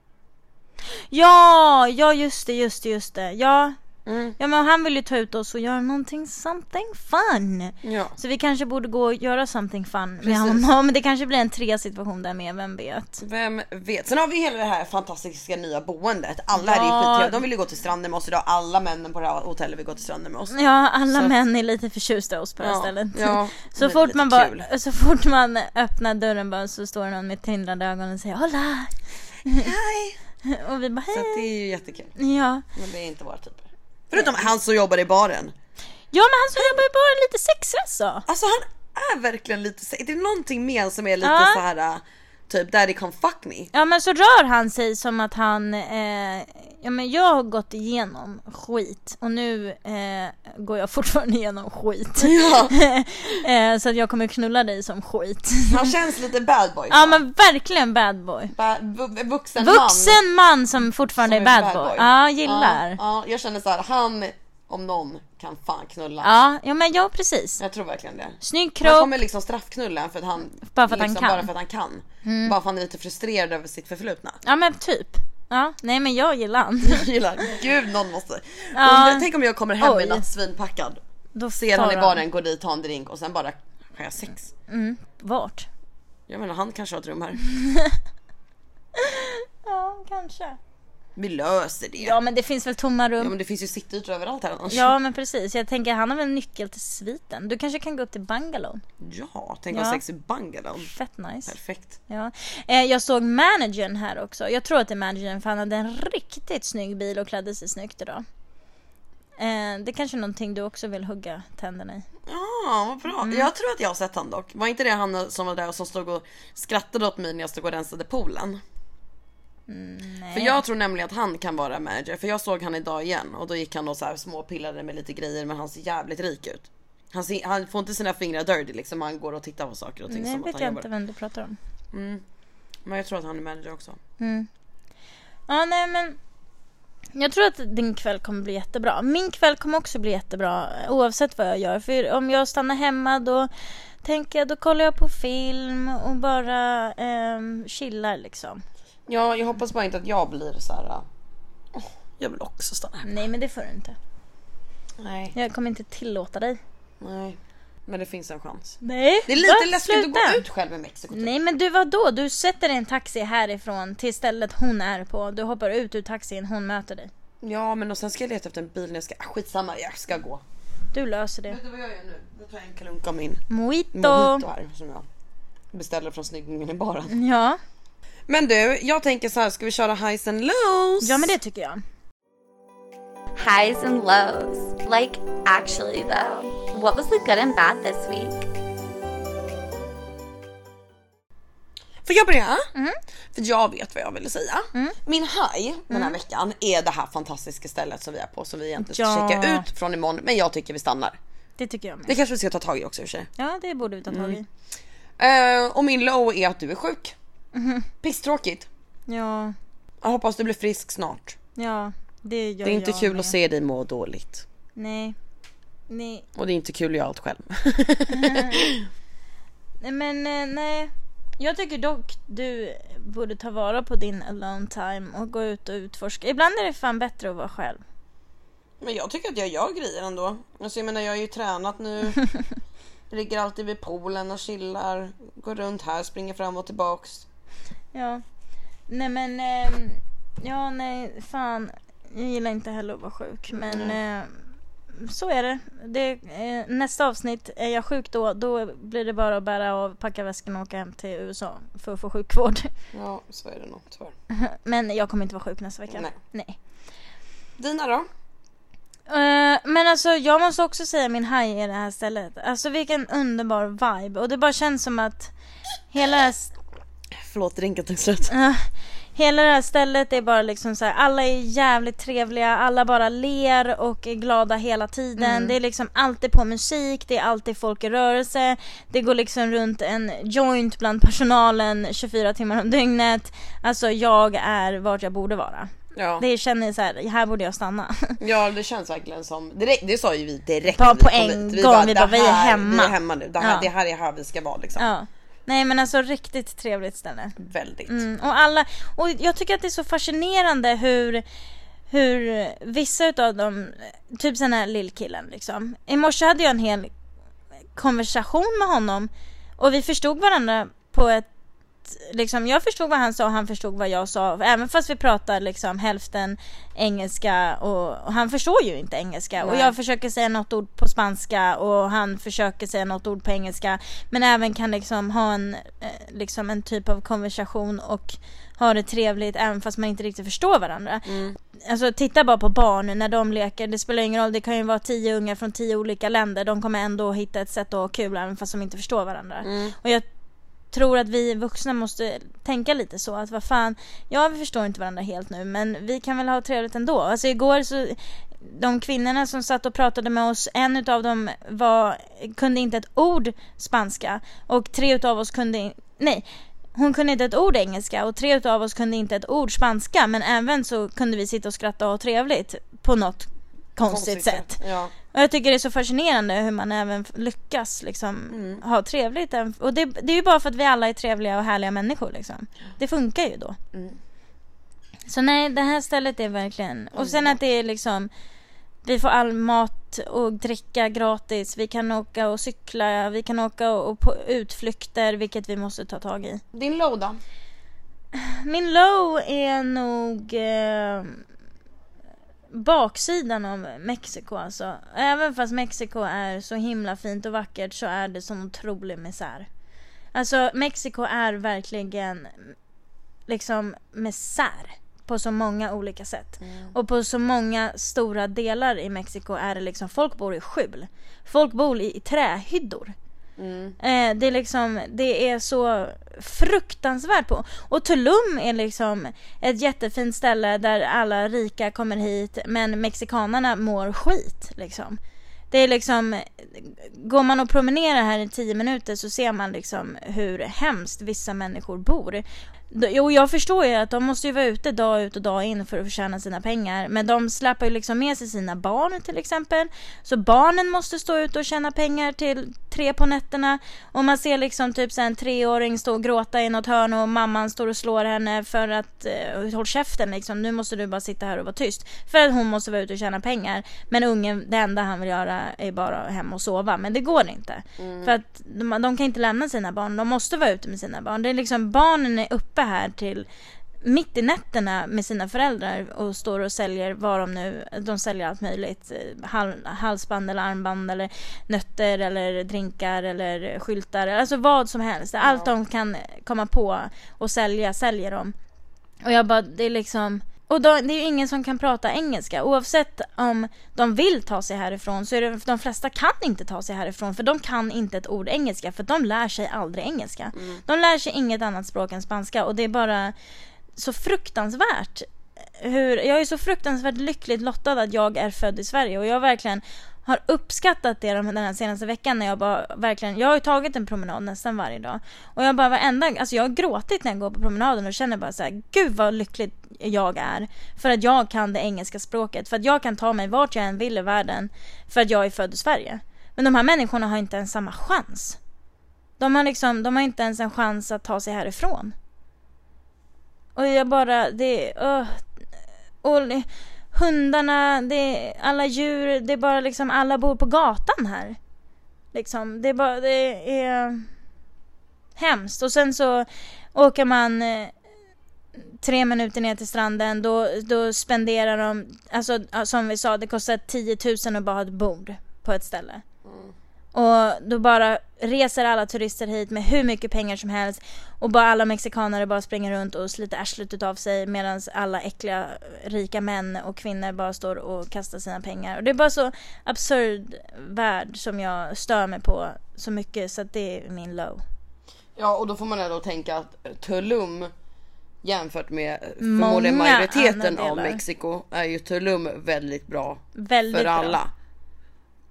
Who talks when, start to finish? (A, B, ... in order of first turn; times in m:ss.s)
0:00.9-0:03.8 A
0:04.1-0:04.4 B
0:04.4-0:13.2 A
0:07.8-0:08.2 B
0:10.2-0:10.6 B
0:13.2-0:20.6 B
0:16.6-0:17.4 A
0:20.5-0:29.7 A
0:22.6-0:24.7 B
0:29.5-0:30.2 B
0:30.4-0:31.5 A
0:31.1-0:32.1 B
0:32.2-0:32.7 A
0:32.8-0:35.5 B
0:34.2-0:34.4 A
0:36.1-0:38.3 A
0:38.3-0:43.7 B
0:41.2-0:41.6 A
0:43.7-0:55.9 A
0:52.2-0:52.8 B
0:55.7-0:57.2 B
0:56.9-0:58.5 A
0:58.5-1:00.2 B
0:59.6-1:03.0 A
1:01.2-1:06.4 B
1:06.2-1:07.6 A
1:07.6-1:14.4 B
1:08.4-1:09.2 A
1:10.7-1:11.5 A
1:12.2-1:12.6 A
1:14.4-1:17.1 A
1:16.8-1:21.0 B
1:18.8-1:20.2 A
1:21.4-1:22.2 A
1:21.6-1:24.5 B
1:24.7-1:25.7 A
1:26.3-1:27.4 B
1:27.4-1:28.0 A
1:29.0-1:30.6 A
1:31.2-1:32.2 B
1:32.0-1:33.3 A
1:33.2-1:34.9 B
1:34.7-1:38.8 A
1:39.0-1:40.9 B
1:39.7-1:40.0 A
1:40.8-1:41.5 A
1:41.5-1:42.0 B
1:42.1-1:48.2 A
1:49.4-1:52.0 A
1:52.3-1:58.6 B
1:53.1-1:53.5 A
1:59.7-2:00.6 A
2:00.3-2:10.9 B
2:10.1-2:11.6 A
2:11.9-2:12.2 B
2:12.8-2:14.0 B
2:14.2-2:14.5 A
2:15.5-2:16.2 A
2:17.1-2:23.5 A
2:24.0-2:28.6 A
2:29.1-2:31.0 B
2:31.7-2:33.1 B
2:33.0-2:34.0 A
2:35.0-2:35.3 B
2:35.3-2:36.6 A
2:37.0-2:41.3 B
2:38.8-2:40.4 A
2:41.1-2:47.1 A
2:47.4-2:50.4 B
2:50.9-2:51.6 A
2:51.5-2:55.1 B
2:53.5-2:54.4 A
2:55.7-2:57.2 B
2:57.1-2:57.6 A
2:58.3-3:01.3 B
3:01.0-3:01.8 A
3:03.4-3:08.4 C
3:12.0-3:12.7 B
3:13.3-3:21.2 B
3:15.9-3:16.2 A
3:18.8-3:19.7 A
3:21.6-3:22.1 A
3:22.1-3:23.3 B
3:23.4-3:24.4 A
3:24.1-3:24.4 B
3:25.2-3:27.2 B
3:27.5-3:27.9 A
3:28.0-3:28.7 B
3:29.1-3:29.6 A
3:30.0-3:31.4 B
3:31.6-3:33.3 A
3:32.6-3:34.4 B
3:34.8-3:35.2 A
3:35.9-3:36.2 A
3:36.4-3:38.9 B
3:38.1-3:38.6 A
3:39.8-3:47.8 A
3:48.8-3:52.2 B
3:53.1-3:57.3 B
3:57.9-3:58.2 A
3:58.9-4:04.4 A
4:03.5-4:04.0 B
4:04.9-4:12.7 A
4:12.9-4:14.1 B
4:14.3-4:16.6 A
4:15.9-4:16.2 B
4:17.6-4:18.1 B
4:19.1-4:25.3 A
4:25.9-4:26.5 A
4:27.2-4:28.3 B
4:28.3-4:48.2 A
4:35.2-4:35.6 B
4:46.0-4:46.2 B
4:48.2-4:54.9 B
4:50.8-4:53.7 A
4:54.8-4:57.4 A
4:57.4-4:58.0 B
4:57.9-5:01.2 A
5:01.9-5:06.9 A
5:07.8-5:11.3 A
5:11.8-5:40.1 A
5:19.4-5:19.7 B
5:31.1-5:31.4 B
5:39.4-5:39.8 B
5:40.7-6:13.6 A
6:03.8-6:04.9 B
6:08.3-6:08.6 B
6:13.7-6:14.0 B
6:15.1-6:18.1 A
6:17.0-6:17.4 B
6:18.8-6:26.4 A
6:26.5-6:27.2 B
6:28.1-6:31.2 A
6:32.5-6:39.5 A
6:40.1-6:42.6 A
6:43.3-6:53.0 A
6:46.4-6:46.8 B
6:53.4-6:53.8 B
6:53.8-7:05.0 A
7:05.5-7:43.3 A
7:37.8-7:38.1 B
7:43.8-7:58.3 A
7:55.2-7:55.5 B
7:59.0-8:13.2 A
8:10.3-8:10.6 B
8:13.8-8:38.4 A
8:39.2-8:42.0 A
8:43.6-8:45.3 A
8:46.0-8:51.4 A
8:52.1-8:54.1 A
8:55.2-8:57.8 A
8:58.6-9:06.0 A
9:06.2-9:06.5 B
9:06.9-9:24.4 A
9:25.2-9:27.5 B
9:28.2-9:34.3 B
9:29.2-9:31.0 A
9:33.4-9:34.2 A